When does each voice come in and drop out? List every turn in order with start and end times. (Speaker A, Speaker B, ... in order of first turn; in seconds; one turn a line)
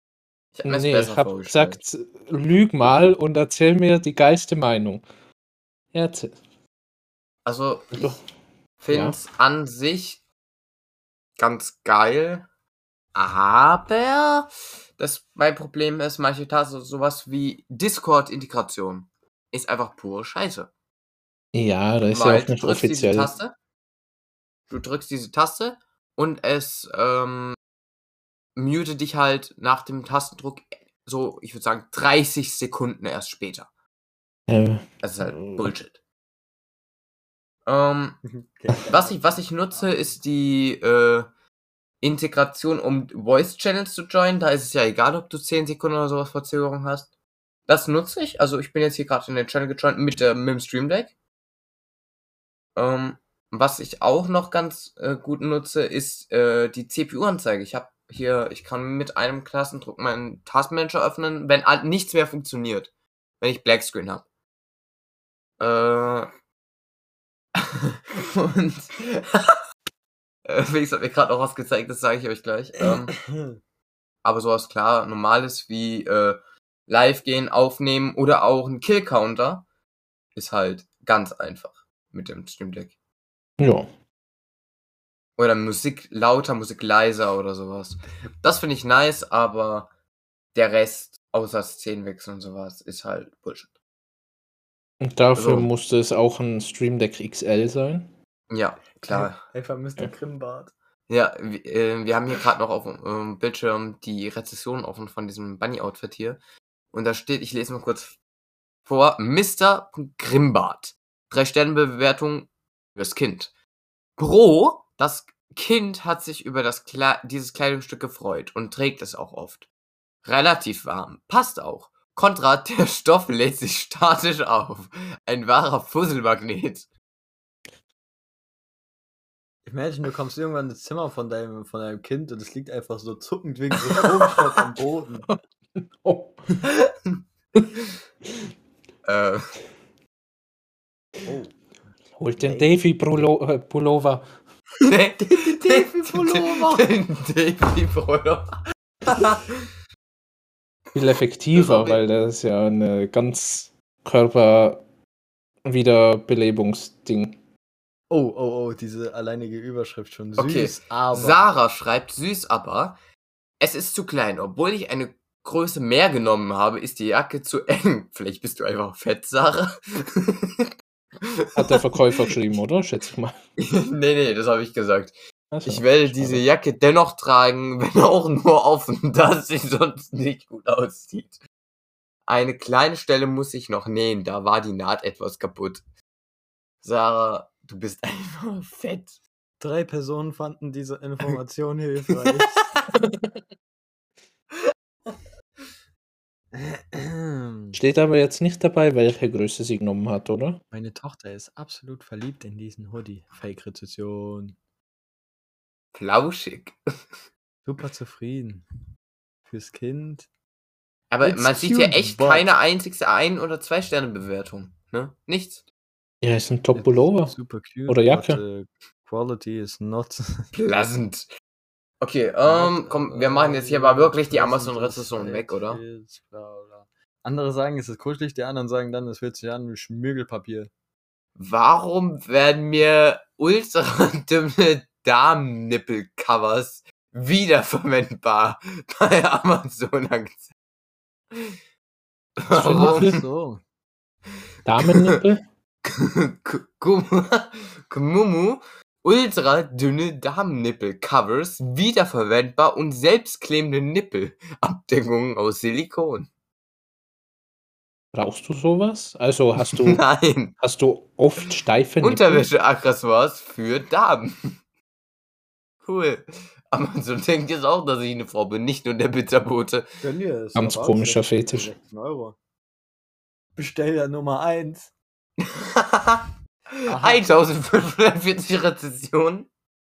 Speaker A: 0.6-1.8
Speaker B: 0.7-5.0
Speaker B: 5.9-6.4
Speaker A: 7.5-8.2
Speaker B: 7.9-8.2
Speaker A: 8.8-10.2
Speaker B: 8.9-9.2
Speaker A: 11.4-12.5
Speaker A: 13.2-20.7
Speaker B: 21.5-23.3
Speaker A: 22.1-23.6
Speaker A: 24.7-27.6
Speaker A: 28.6-33.7
Speaker B: 34.5-35.7
Speaker A: 35.0-36.0
Speaker A: 37.7-38.2
Speaker C: 38.2-39.9
Speaker A: 38.8-41.3
Speaker A: 42.0-47.1
Speaker A: 47.7-51.1
Speaker A: 52.8-64.2
Speaker A: 65.6-66.3
Speaker A: 67.6-69.6
Speaker A: 70.5-73.2
Speaker C: 72.8-73.6
Speaker A: 74.2-79.7
Speaker A: 80.3-83.0
Speaker B: 83.6-83.9
Speaker A: 85.4-89.9
Speaker A: 90.5-93.7
Speaker B: 95.0-98.1
Speaker A: 95.3-95.7
Speaker A: 98.5-99.4
Speaker C: 99.1-100.7
Speaker A: 101.1-106.4
Speaker A: 106.9-108.2
Speaker A: 108.9-113.5
Speaker A: 114.2-119.7
Speaker A: 120.2-126.9
Speaker C: 129.7-135.3
Speaker B: 135.3-136.5
Speaker A: 136.6-136.9
Speaker A: 139.1-139.5
Speaker C: 141.3-141.5
Speaker B: 142.2-144.2
Speaker C: 142.4-142.7
Speaker A: 144.8-149.7
Speaker C: 145.2-146.8
Speaker B: 150.9-154.8
Speaker A: 151.6-152.0
Speaker B: 155.7-157.4
Speaker C: 158.1-161.4
Speaker A: 160.4-163.0
Speaker A: 163.6-170.7
Speaker A: 171.2-171.8
Speaker B: 171.6-173.4
Speaker A: 173.6-181.4
Speaker B: 175.5-176.4
Speaker A: 182.3-185.8
Speaker A: 186.8-189.2
Speaker C: 189.6-192.7
Speaker A: 192.2-192.9
Speaker B: 192.9-193.3
Speaker C: 196.5-197.8
Speaker B: 197.7-200.6
Speaker C: 200.7-204.6
Speaker A: 205.9-206.8
Speaker C: 207.7-208.7
Speaker C: 209.5-210.3
Speaker A: 211.1-215.6
Speaker C: 211.2-212.5
Speaker B: 216.2-217.3
Speaker C: 216.7-220.5
Speaker B: 217.9-218.4
Speaker A: 220.5-221.3
Speaker A: 222.0-225.8
Speaker C: 222.4-230.7
Speaker A: 231.4-240.5
Speaker A: 242.4-243.1
Speaker B: 242.5-243.2
Speaker C: 242.6-243.6
Speaker B: 244.7-245.4
Speaker A: 244.8-245.2
Speaker A: 245.8-256.3
Speaker B: 258.1-260.0
Speaker A: 259.6-260.6
Speaker B: 260.6-262.5
Speaker A: 262.0-264.5
Speaker A: 265.8-269.9
Speaker C: 270.0-272.4
Speaker B: 270.6-271.7
Speaker C: 273.6-274.9
Speaker A: 275.4-279.5
Speaker C: 276.9-277.2